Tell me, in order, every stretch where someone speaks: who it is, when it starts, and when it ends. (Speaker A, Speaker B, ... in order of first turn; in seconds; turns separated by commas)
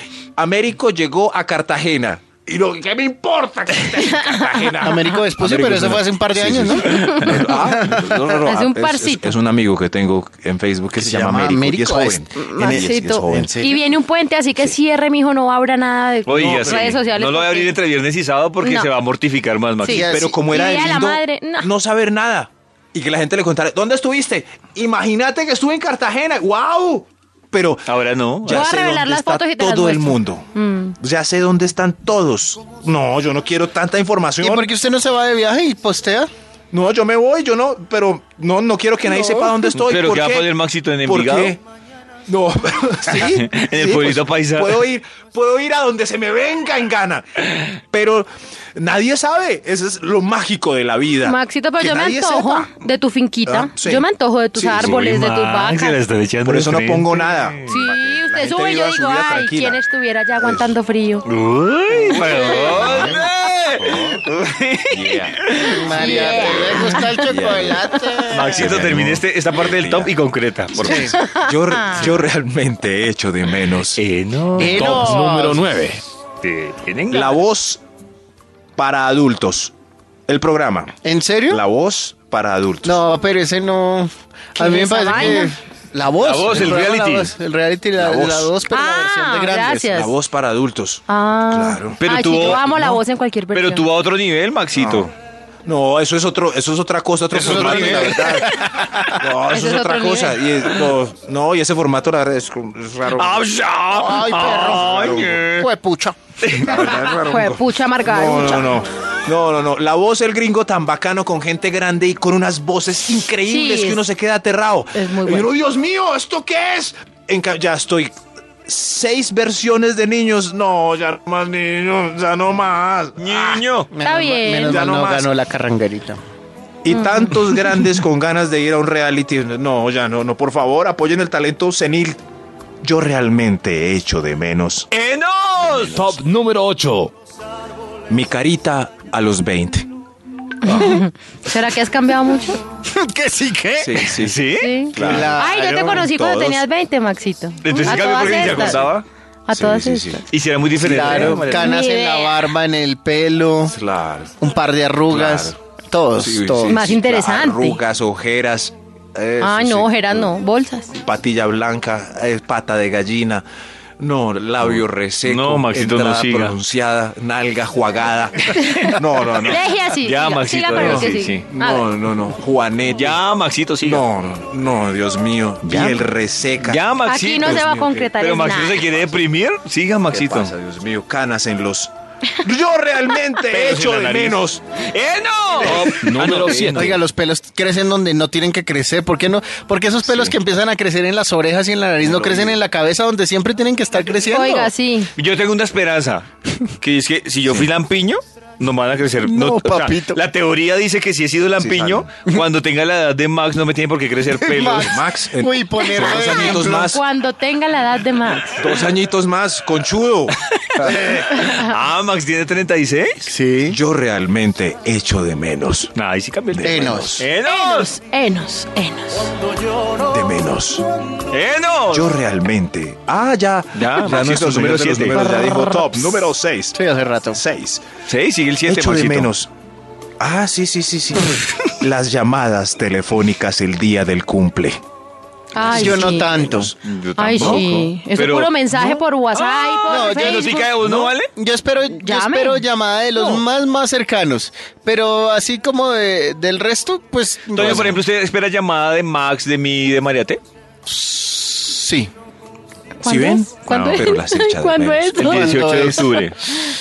Speaker A: 0.3-13.6, Speaker B: 4.1-4.5, Speaker C: 4.8-8.2, Speaker B: 6.9-7.3, Speaker B: 8.4-9.3, Speaker C: 11.0-13.8, Speaker B: 12.3-17.7, Speaker D: 16.2-20.1, Speaker A: 16.3-17.0, Speaker B: 18.6-18.9, Speaker B: 19.8-21.7, Speaker C: 19.9-20.4, Speaker A: 19.9-27.9, Speaker D: 27.9-28.7, Speaker A: 28.4-30.5, Speaker B: 28.5-30.9, Speaker A: 31.0-34.7, Speaker C: 34.4-36.3, Speaker A: 36.7-41.6, Speaker C: 39.2-39.5, Speaker D: 39.7-41.5, Speaker A: 42.3-52.7, Speaker D: 43.2-44.8, Speaker B: 51.2-56.0, Speaker A: 53.5-55.0, Speaker D: 54.7-57.7, Speaker A: 56.4-59.8, Speaker B: 57.7-61.2, Speaker A: 60.4-60.7, Speaker D: 61.2-65.8, Speaker B: 62.3-62.6, Speaker A: 62.5-63.2, Speaker C: 62.8-63.1, Speaker A: 63.8-64.2, Speaker A: 64.9-65.5, Speaker C: 65.6-68.7, Speaker B: 65.9-67.3, Speaker A: 66.0-66.5, Speaker A: 67.2-70.2, Speaker D: 68.3-71.1, Speaker A: 70.7-74.0, Speaker C: 70.8-71.1, Speaker B: 71.1-72.0, Speaker D: 74.0-75.1, Speaker C: 74.5-75.6, Speaker E: 74.6-76.0, Speaker D: 76.4-77.3, Speaker A: 77.1-77.8, Speaker A: 78.8-79.7, Speaker A: 80.3-80.9, Speaker C: 81.0-81.6, Speaker A: 81.5-83.0, Speaker C: 82.8-89.9, Speaker B: 84.6-85.5, Speaker D: 86.2-87.3, Speaker A: 88.0-88.5, Speaker B: 88.7-90.1, Speaker A: 89.9-92.4, Speaker B: 91.1-93.8, Speaker D: 92.0-93.0, Speaker D: 93.5-95.1, Speaker A: 94.7-95.1, Speaker A: 95.6-103.5, Speaker C: 97.3-99.1, Speaker D: 97.3-98.6, Speaker B: 99.5-100.4, Speaker D: 103.1-105.7, Speaker C: 103.9-106.2, Speaker A: 104.4-105.4, Speaker D: 106.4-107.1, Speaker A: 106.5-118.1, Speaker B: 106.9-108.8, Speaker B: 113.4-114.0, Speaker B: 114.9-115.5, Speaker A: 118.7-123.7, Speaker D: 123.2-123.9, Speaker C: 123.9-126.2, Speaker B: 124.0-124.8, Speaker A: 124.6-125.3, Speaker A: 126.8-132.2, Speaker A: 132.8-134.9, Speaker D: 134.9-136.0, Speaker A: 135.6-136.1, Speaker E: 135.9-137.1, Speaker A: 138.1-139.9, Speaker B: 140.6-142.6, Speaker C: 142.8-144.1, Speaker A: 143.8-146.6, Speaker D: 144.1-145.2, Speaker B: 144.6-148.8, Speaker C: 145.0-146.1, Speaker D: 147.6-149.0, Speaker A: 147.8-149.0, Speaker B: 149.5-150.2, Speaker A: 149.5-150.2, Speaker D: 150.3-151.7, Speaker C: 150.8-153.7, Speaker A: 151.1-151.4, Speaker B: 151.4-152.5, Speaker A: 153.7-154.4, Speaker C: 154.4-156.8, Speaker A: 155.1-155.6, Speaker A: 156.1-160.3, Speaker B: 156.6-157.8, Speaker B: 159.4-160.9, Speaker A: 160.9-163.4, Speaker A: 164.0-169.7, Speaker D: 164.7-166.6, Speaker B: 168.6-171.9, Speaker D: 170.0-171.5, Speaker A: 170.8-173.2, Speaker D: 172.9-174.0, Speaker A: 173.8-176.8, Speaker D: 175.7-176.0, Speaker D: 176.6-180.5, Speaker B: 177.1-178.8, Speaker A: 177.4-178.0, Speaker A: 180.1-184.6, Speaker D: 183.5-187.0, Speaker E: 185.7-187.0, Speaker C: 186.7-194.7, Speaker A: 190.0-190.3, Speaker A: 192.0-192.6, Speaker B: 194.3-195.1, Speaker D: 195.2-196.2, Speaker D: 196.8-205.0, Speaker C: 199.2-200.2, Speaker A: 201.6-202.1, Speaker C: 204.4-206.9, Speaker A: 204.7-207.0, Speaker B: 206.1-208.6, Speaker A: 208.6-210.4, Speaker D: 210.4-213.3, Speaker B: 211.3-211.7, Speaker C: 213.3-213.8, Speaker A: 213.7-215.9, Speaker D: 215.9-217.9, Speaker A: 216.5-217.3, Speaker C: 216.6-217.1, Speaker B: 217.4-219.3, Speaker A: 220.0-220.8, Speaker D: 221.3-222.1, Speaker A: 221.9-226.8, Speaker D: 223.7-225.7, Speaker C: 226.8-227.4, Speaker A: 227.3-227.8, Speaker D: 228.1-229.3, Speaker A: 228.7-229.5, Speaker A: 230.2-234.8, Speaker B: 235.5-236.3, Speaker A: 235.6-236.8, Speaker C: 235.6-236.7, Speaker D: 236.8-241.3, Speaker B: 237.2-240.7, Speaker A: 237.3-237.7, Speaker C: 239.9-248.0, Speaker B: 241.9-242.6, Speaker D: 243.2-243.4, Speaker D: 247.5-250.4, Speaker A: 247.6-248.0, Speaker C: 250.8-252.1, Speaker B: 253.0-255.5, Speaker A: 253.0-255.4, Speaker D: 253.7-254.0, Speaker D: 255.2-256.4, Speaker C: 255.2-256.2